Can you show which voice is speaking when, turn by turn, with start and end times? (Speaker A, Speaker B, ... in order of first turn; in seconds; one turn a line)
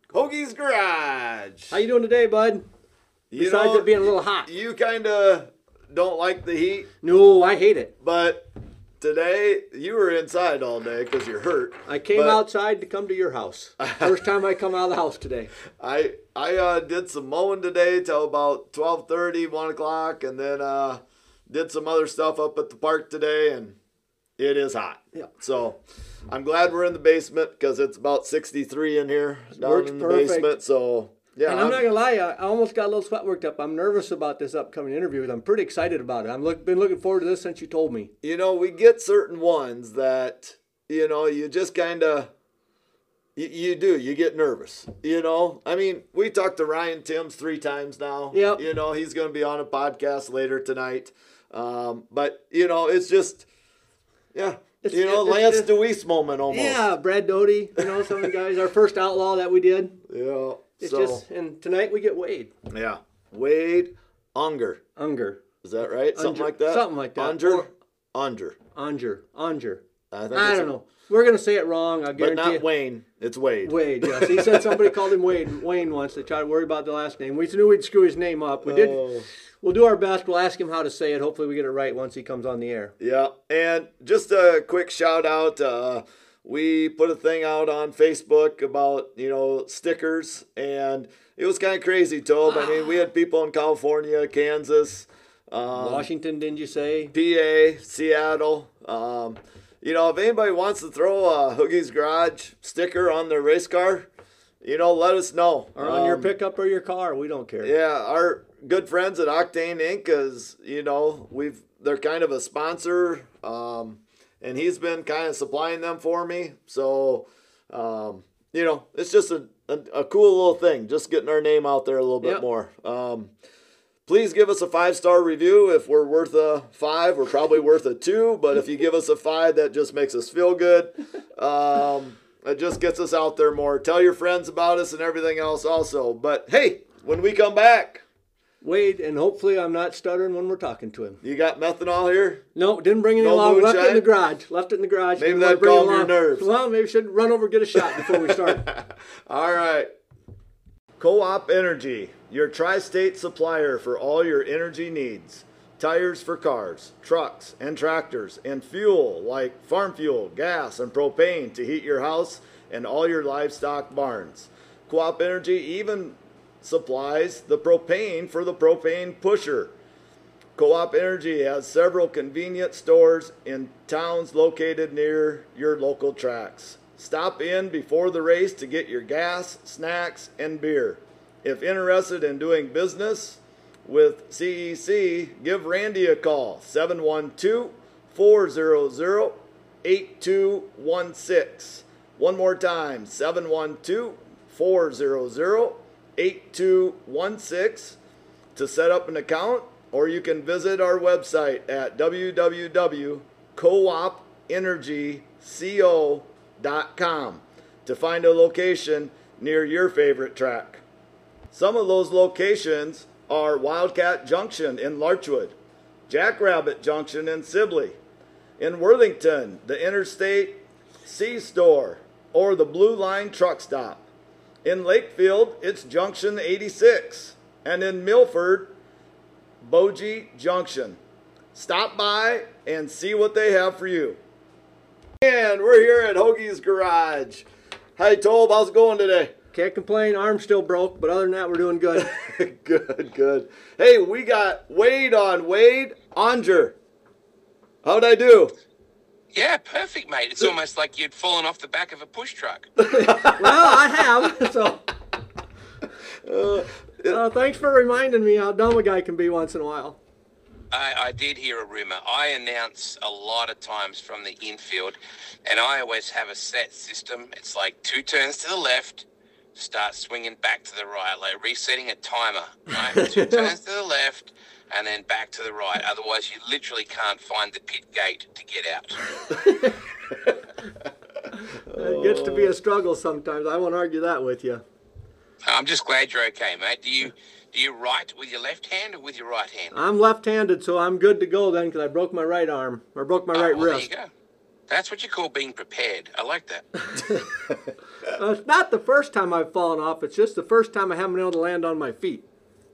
Speaker A: 0.1-1.8
Speaker B: 1.7-2.7
Speaker A: 3.3-6.9
Speaker B: 3.4-4.5
Speaker B: 7.0-7.9
Speaker A: 8.0-12.4
Speaker B: 11.9-15.5
Speaker A: 13.8-14.1
Speaker A: 15.8-23.8
Speaker A: 24.4-31.9
Speaker B: 29.6-30.5
Speaker B: 31.5-38.1
Speaker A: 38.2-42.3
Speaker A: 43.4-53.5
Speaker B: 48.3-48.6
Speaker A: 54.3-56.8
Speaker B: 54.8-55.7
Speaker B: 56.5-60.0
Speaker A: 57.8-58.3
Speaker A: 60.1-61.2
Speaker B: 60.8-62.5
Speaker A: 62.7-64.8
Speaker B: 65.0-65.4
Speaker A: 65.6-68.6
Speaker B: 66.1-67.7
Speaker B: 68.8-72.7
Speaker A: 70.1-70.7
Speaker A: 72.2-74.9
Speaker B: 73.7-79.0
Speaker A: 78.6-79.3
Speaker B: 79.6-82.9
Speaker A: 83.0-96.1
Speaker B: 95.7-97.1
Speaker A: 97.1-104.1
Speaker A: 104.6-106.3
Speaker B: 105.8-107.7
Speaker A: 107.6-123.3
Speaker A: 124.1-138.1
Speaker B: 138.6-141.2
Speaker A: 141.2-142.5
Speaker B: 142.6-148.7
Speaker A: 143.2-144.1
Speaker A: 145.2-146.5
Speaker A: 147.8-149.9
Speaker A: 151.0-169.8
Speaker A: 170.6-198.0
Speaker A: 198.6-210.8
Speaker A: 211.5-215.6
Speaker A: 216.1-218.0
Speaker A: 218.6-224.1
Speaker A: 224.6-228.8
Speaker A: 229.6-231.0
Speaker A: 231.6-234.2
Speaker A: 235.2-237.5
Speaker A: 238.0-239.4
Speaker B: 239.5-242.1
Speaker A: 242.0-246.8
Speaker A: 247.8-248.6
Speaker C: 249.3-252.8
Speaker B: 252.9-254.9
Speaker A: 252.9-253.7
Speaker A: 256.2-257.2
Speaker B: 257.1-260.0
Speaker C: 260.7-279.0
Speaker B: 273.0-273.5
Speaker B: 279.3-279.8
Speaker B: 281.4-284.6
Speaker A: 281.7-282.6
Speaker C: 285.4-289.7
Speaker B: 289.7-293.9
Speaker C: 293.3-294.1
Speaker C: 294.7-296.7
Speaker B: 296.9-297.2
Speaker B: 298.1-302.3